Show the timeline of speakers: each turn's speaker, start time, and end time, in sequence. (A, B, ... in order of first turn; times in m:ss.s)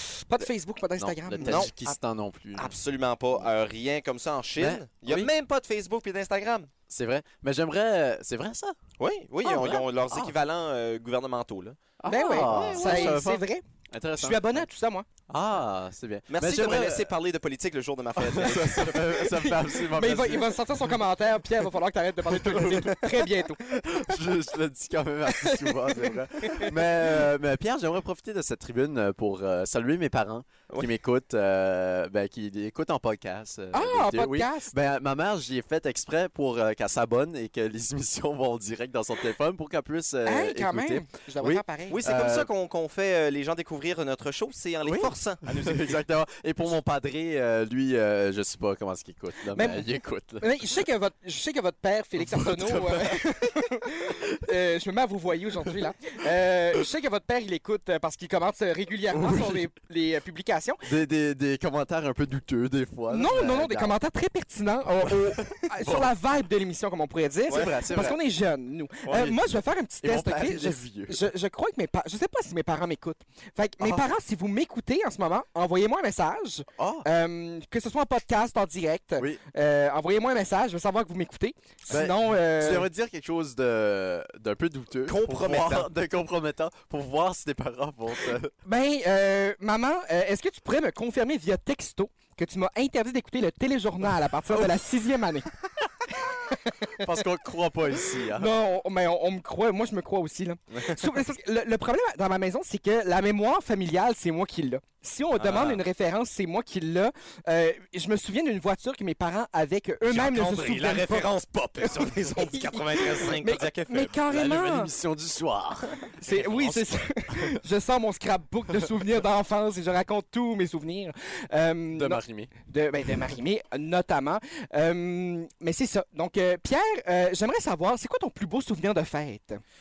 0:00.2-0:01.7 A
0:01.0-0:02.8 B
0:01.4-0:01.7 C
0:02.6-0:06.7 C
0:04.6-0:05.3 B
0:06.9-0:08.8 B
0:09.0-0:13.2 C
0:09.4-0:09.8 A
0:09.5-0:10.4 B
0:12.0-0:14.6 B
0:12.1-0:13.6 A
0:14.2-0:15.1 A
0:15.3-0:17.2 B
0:16.3-0:19.2 C
0:18.2-0:20.8 B
0:19.0-0:23.6 A
0:22.2-0:23.1 B
0:23.7-0:42.5 B
0:25.4-0:26.7 A
0:33.7-0:34.7 A
0:40.2-0:42.0 A
0:41.9-0:46.0 C
0:44.8-0:50.8 B
0:49.5-0:49.9 A
0:50.4-1:00.8 A
0:52.2-0:53.3 B
0:54.0-0:54.4 B
0:59.1-0:59.7 B
1:00.8-1:04.0 B
1:03.1-1:22.9 A
1:05.1-1:06.1 B
1:07.5-1:08.2 B
1:09.1-1:09.4 B
1:10.0-1:11.2 B
1:13.8-1:14.1 B
1:16.8-1:17.1 B
1:21.9-1:28.5 B
1:25.1-1:25.9 C
1:28.6-1:35.5 A
1:37.0-1:38.5 B
1:38.3-1:54.9 A
1:45.4-1:45.8 B
1:50.0-1:54.1 C
1:54.2-1:57.6 B
1:56.2-2:09.6 A
2:01.9-2:02.5 B